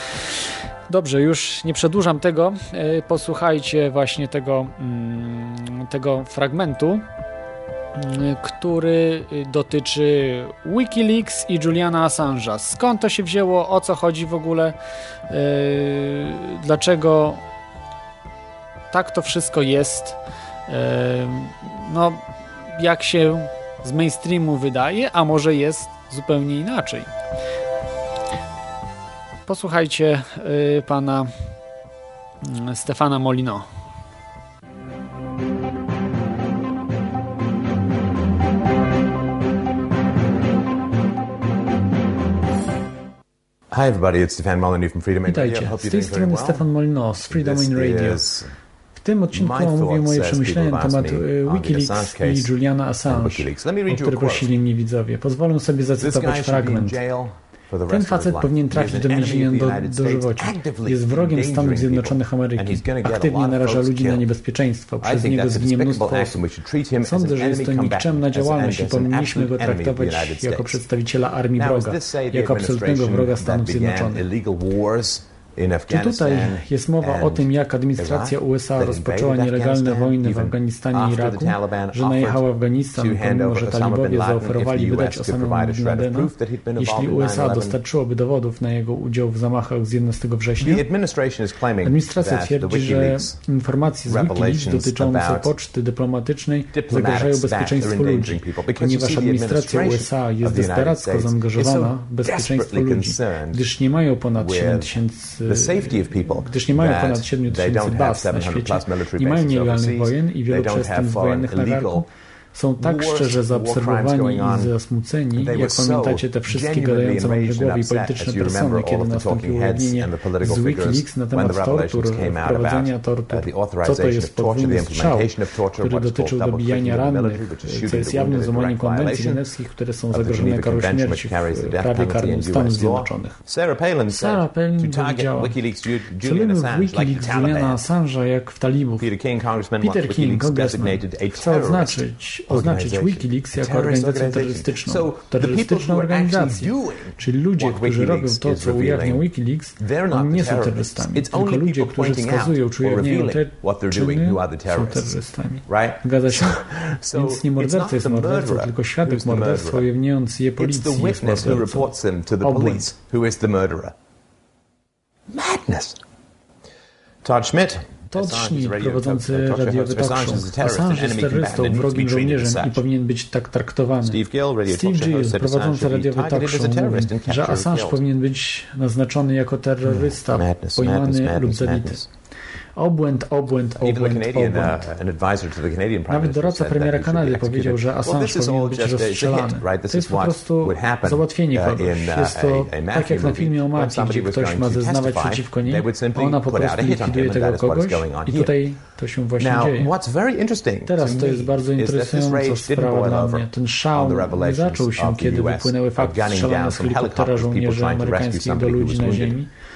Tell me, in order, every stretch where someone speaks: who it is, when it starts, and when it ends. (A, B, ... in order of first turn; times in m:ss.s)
0:00.9-0:07.0 A
0:08.0-0:14.8 A
0:15.3-0:17.4 A
0:18.9-0:20.2 A
0:20.7-0:22.2 A
0:22.7-0:27.1 A
0:29.5-0:31.3 A
0:32.4-0:33.7 A
0:43.7-0:46.7 B
0:45.3-0:48.2 C
0:47.2-0:48.5 B
0:49.0-0:57.0 C
0:49.3-0:52.5 B
0:53.0-0:54.5 B
0:56.0-1:04.3 B
0:57.9-1:06.4 C
1:05.0-1:10.8 B
1:07.0-1:14.3 C
1:11.6-1:27.8 B
1:15.9-1:30.8 C
1:30.6-1:33.4 B
1:31.8-2:13.4 C
1:34.1-1:35.5 B
1:36.7-1:43.7 B
1:44.4-1:52.0 B
1:52.8-1:54.8 B
1:55.3-2:09.4 B
2:10.1-2:17.8 B
2:14.1-2:15.6 C
2:16.2-2:19.1 C
2:19.0-2:29.3 B
2:19.8-2:42.9 C
2:29.8-2:39.9 B
2:40.6-2:43.9 B
2:45.3-2:46.0 B
2:47.2-2:52.8 B
2:48.1-3:02.0 C
2:54.0-2:58.0 B
2:59.8-3:02.1 B
3:02.8-3:04.8 C
3:03.8-3:18.6 B
3:06.1-3:19.9 C
3:19.4-3:29.4 B
3:20.8-3:29.5 C